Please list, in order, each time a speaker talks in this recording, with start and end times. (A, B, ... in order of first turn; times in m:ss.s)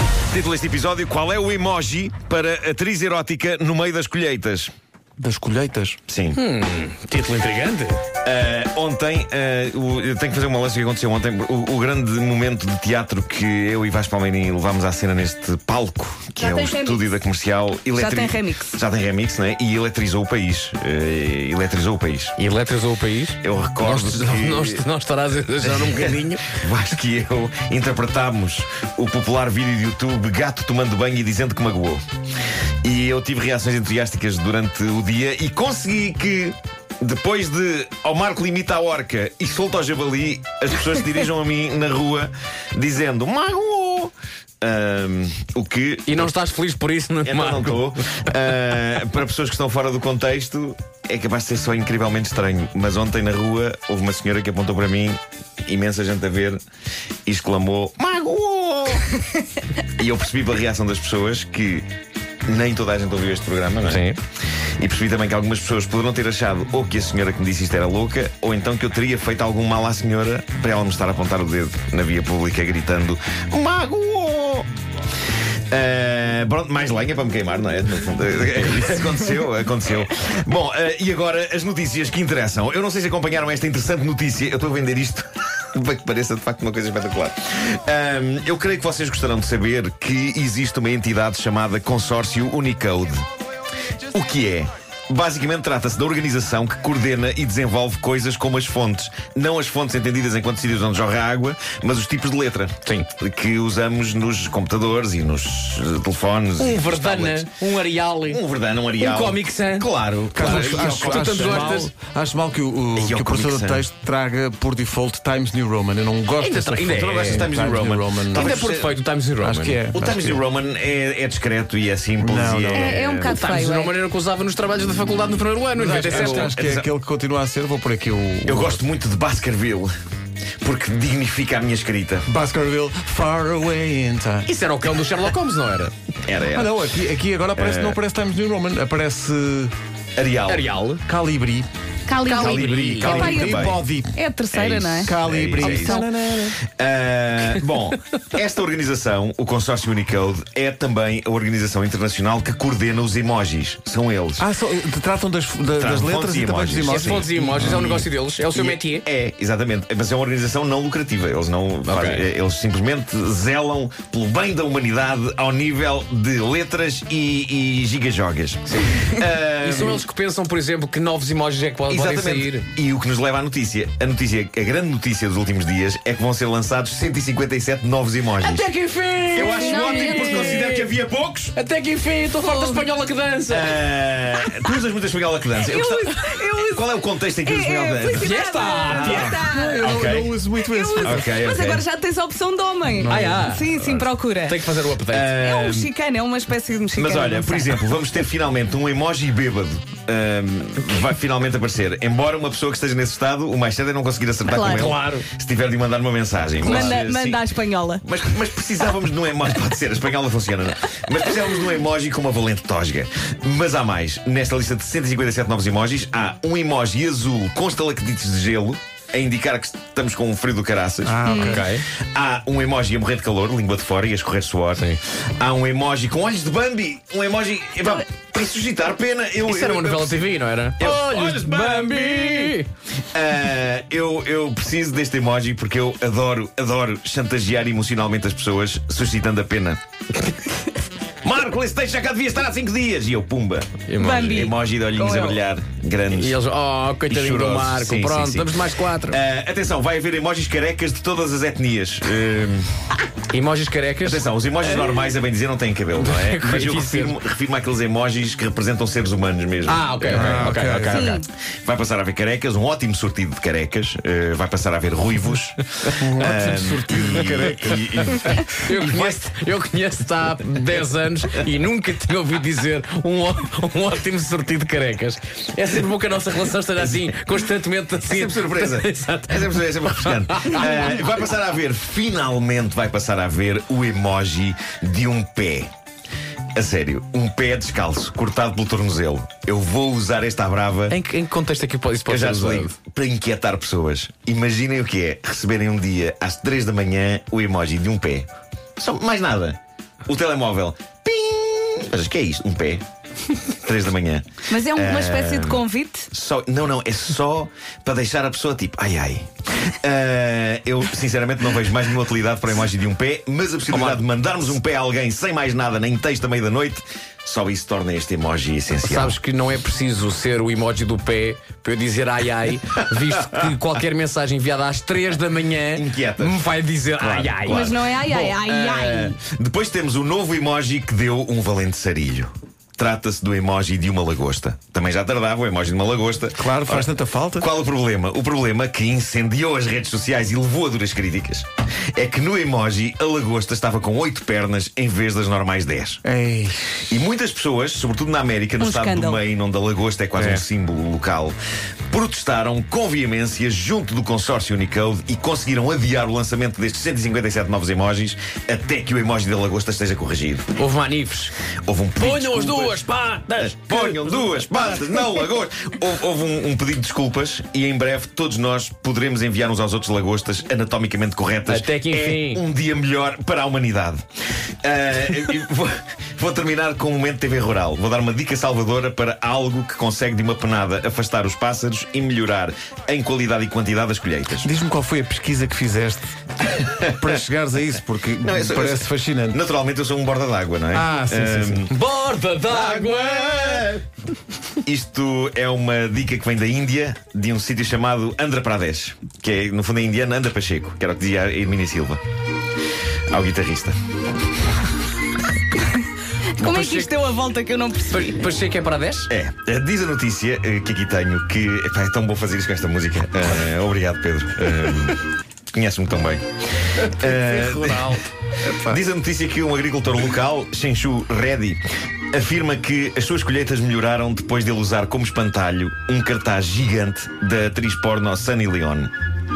0:00.3-0:04.7 A
0:05.2-0:06.0 B
0:06.1-0:06.4 A
0:06.3-0:08.0 C
0:08.2-0:22.4 A
0:16.4-0:17.0 D
0:17.9-0:18.8 D
0:22.4-0:26.5 C
0:23.4-0:24.8 A
0:25.6-0:32.0 A
0:32.8-0:46.3 A
0:46.0-0:48.3 C
0:47.2-0:56.6 A
0:57.2-0:59.1 A
1:00.0-1:01.9 A
1:02.5-1:04.1 A
1:03.8-1:04.2 C
1:04.8-1:14.7 A
1:15.7-1:33.2 A
1:34.1-1:47.5 A
1:46.6-1:48.4 C
1:48.3-1:51.8 A
1:49.0-1:51.9 C
1:50.3-1:58.5 B
1:52.9-1:53.9 A
1:56.4-1:59.8 C
1:56.9-1:58.9 A
1:59.4-2:00.4 B
1:59.9-2:03.4 A
2:02.2-2:03.0 B
2:02.7-2:03.9 D
2:03.2-2:06.5 C
2:05.8-2:08.8 B
2:06.0-2:06.9 A
2:08.4-2:09.9 A
2:10.6-2:12.3 A
2:12.2-2:14.5 B
2:14.4-2:15.9 C
2:16.2-2:16.9 A
2:16.5-2:19.7 B
2:17.5-2:18.0 A
2:20.2-2:20.7 A
2:20.5-2:21.0 C
2:21.0-2:21.7 B
2:22.1-2:26.0 D
2:22.2-2:23.4 C
2:22.3-2:23.8 A
2:22.9-2:24.2 B
2:24.5-2:26.0 A
2:25.0-2:26.6 B
2:26.6-2:34.4 A
2:34.4-2:38.0 B
2:35.8-2:50.0 A
2:36.8-2:39.0 C
2:41.8-2:42.2 C
2:48.7-2:52.6 C
2:51.9-2:58.7 A
2:58.4-3:00.9 C
2:59.3-3:01.6 A
2:59.4-3:00.8 D
3:01.5-3:03.8 C
3:02.3-3:02.9 D
3:03.5-3:08.4 A
3:05.6-3:10.0 D
3:08.1-3:09.4 C
3:08.8-3:11.4 B
3:09.8-3:10.4 A
3:10.5-3:14.6 D
3:11.0-3:11.8 A
3:12.9-3:13.5 B
3:13.1-3:15.4 C
3:15.1-3:15.9 A
3:15.4-3:17.8 D
3:16.9-3:27.5 A
3:24.4-3:24.9 D
3:24.6-3:25.3 C
3:26.6-3:28.0 D
3:26.6-3:27.0 C
3:28.0-3:52.6 A
3:41.0-3:41.6 B
3:41.2-3:41.6 D
3:41.3-3:41.8 C
3:49.4-3:52.7 C
3:53.1-3:59.8 A
4:01.2-4:06.4 A
4:03.9-4:04.4 C
4:04.0-4:05.4 D
4:06.1-4:09.2 C
4:07.1-4:12.7 A
4:13.3-4:14.2 C
4:14.0-4:20.5 A
4:15.9-4:17.2 C
4:19.6-4:21.2 C
4:20.1-4:21.2 B
4:20.9-4:21.2 D
4:21.6-4:29.2 A
4:25.9-4:28.4 B
4:28.0-4:41.0 C
4:38.0-4:45.7 A
4:46.5-4:51.0 A
4:50.9-4:52.7 C
4:52.1-4:58.3 A
4:58.8-5:02.8 A
5:03.5-5:19.2 A
5:04.5-5:06.1 D
5:13.7-5:14.5 C
5:18.8-5:27.8 C
5:25.7-5:46.0 A
5:27.4-5:29.2 D
5:36.4-5:37.5 B
5:46.0-5:46.7 B
5:46.9-5:51.3 A
5:48.6-5:49.2 D
5:51.9-6:00.4 A
6:00.6-6:01.3 C
6:01.6-6:14.0 A
6:02.0-6:04.8 C
6:11.4-6:12.4 C
6:14.6-6:24.5 A
6:24.4-6:29.4 B
6:26.6-6:27.1 A
6:28.2-6:31.7 A
6:30.7-6:31.7 B
6:31.7-6:33.7 C
6:32.5-6:33.8 A
6:34.6-6:42.0 A
6:43.1-6:43.7 A
6:46.4-6:48.2 D
6:46.4-6:46.9 C
6:47.9-6:49.1 C
6:49.1-6:56.2 A
6:56.8-6:58.0 A
6:57.1-6:58.8 B
6:58.6-7:08.9 A